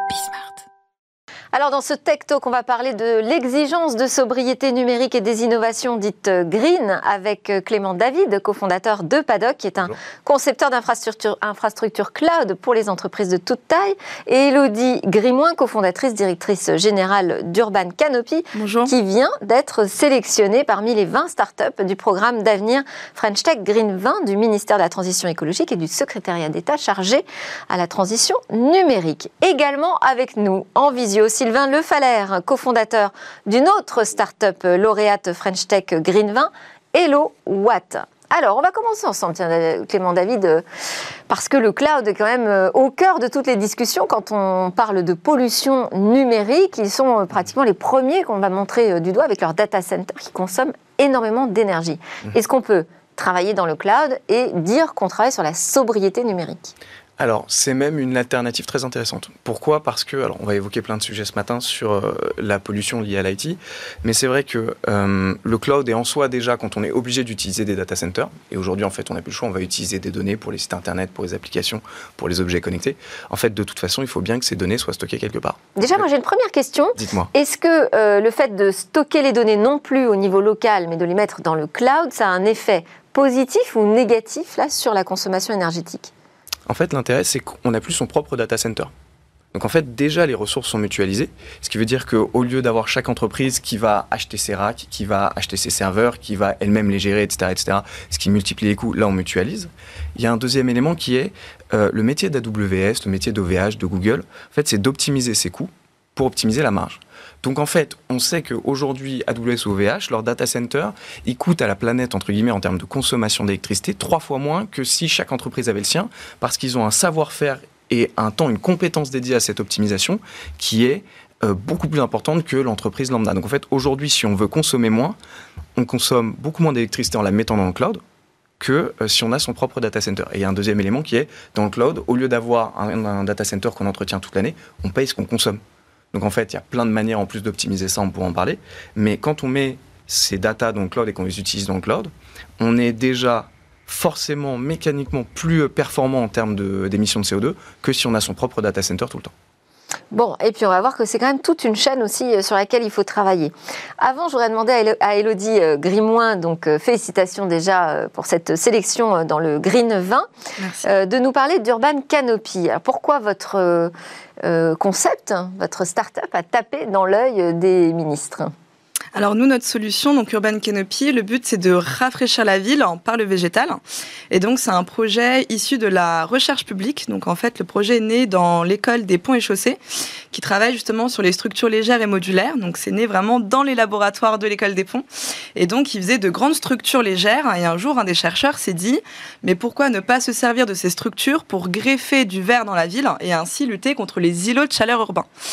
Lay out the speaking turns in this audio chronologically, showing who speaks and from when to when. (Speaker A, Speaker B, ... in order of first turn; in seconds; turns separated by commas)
Speaker A: 1.5-40.6, Speaker B: 18.5-18.9, Speaker A: 41.3-56.7, Speaker C: 57.2-75.6, Speaker A: 75.8-86.1, Speaker C: 77.0-77.3, Speaker C: 86.7-88.9, Speaker C: 89.5-125.2, Speaker C: 125.8-128.0, Speaker C: 128.6-135.6, Speaker C: 136.1-149.3, Speaker A: 150.1-160.3, Speaker B: 160.6-160.9, Speaker A: 160.8-168.5, Speaker B: 169.1-173.8, Speaker B: 174.3-179.8, Speaker B: 180.3-185.0, Speaker B: 185.6-195.3